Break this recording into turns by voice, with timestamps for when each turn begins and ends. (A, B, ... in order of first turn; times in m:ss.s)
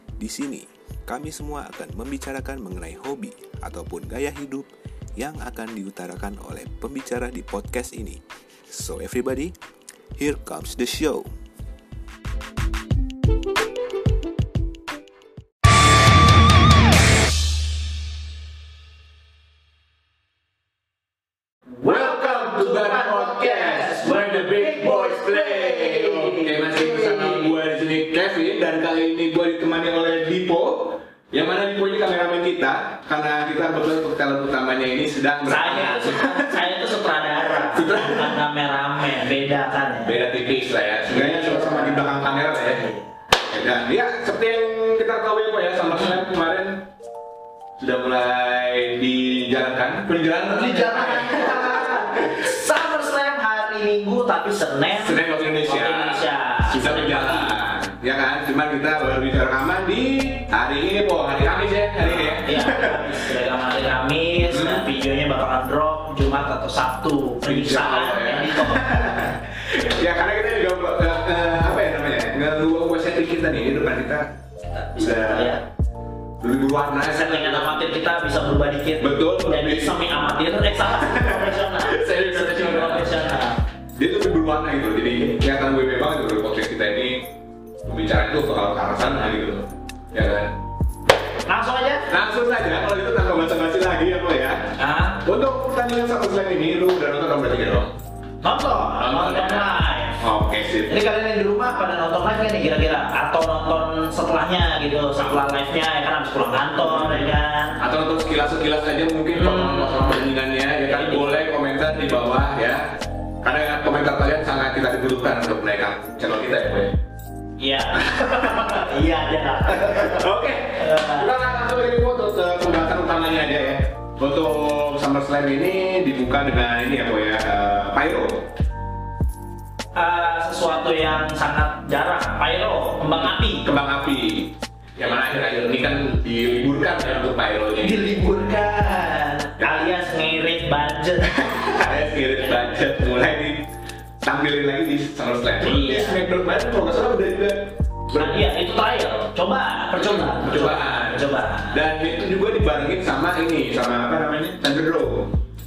0:00.2-0:09.5 A
0:10.2-0:11.3 A
0:21.8-0:27.5 B
0:21.9-0:36.6 C
0:35.5-0:40.2 B
0:37.4-0:38.4 C
0:40.0-0:42.8 C
0:41.1-0:42.1 B
0:42.7-0:43.1 B
0:43.5-0:46.9 C
0:47.8-0:52.4 C
0:50.5-0:57.6 B
0:54.9-1:03.3 C
1:02.0-1:09.2 B
1:04.5-1:04.9 C
1:07.4-1:14.3 C
1:14.7-1:15.6 B
1:15.0-1:15.6 C
1:16.4-1:17.8 C
1:17.1-1:23.6 B
1:19.0-1:20.0 C
1:20.9-1:23.3 C
1:24.0-1:30.6 C
1:31.5-1:32.1 B
1:32.1-1:38.0 C
1:34.8-1:35.2 B
1:38.4-1:40.2 B
1:38.8-1:41.0 C
1:40.9-1:47.8 B
1:46.8-1:56.9 C
1:49.3-1:50.1 B
1:50.9-1:51.3 B
1:57.6-2:01.3 B
1:58.0-1:58.9 C
1:59.7-2:08.5 C
2:09.9-2:13.7 B
2:13.6-2:18.3 C
2:17.8-2:21.5 B
2:21.2-2:23.7 C
2:24.2-2:28.4 C
2:25.6-2:26.2 B
2:28.1-2:31.8 B
2:30.0-2:35.3 C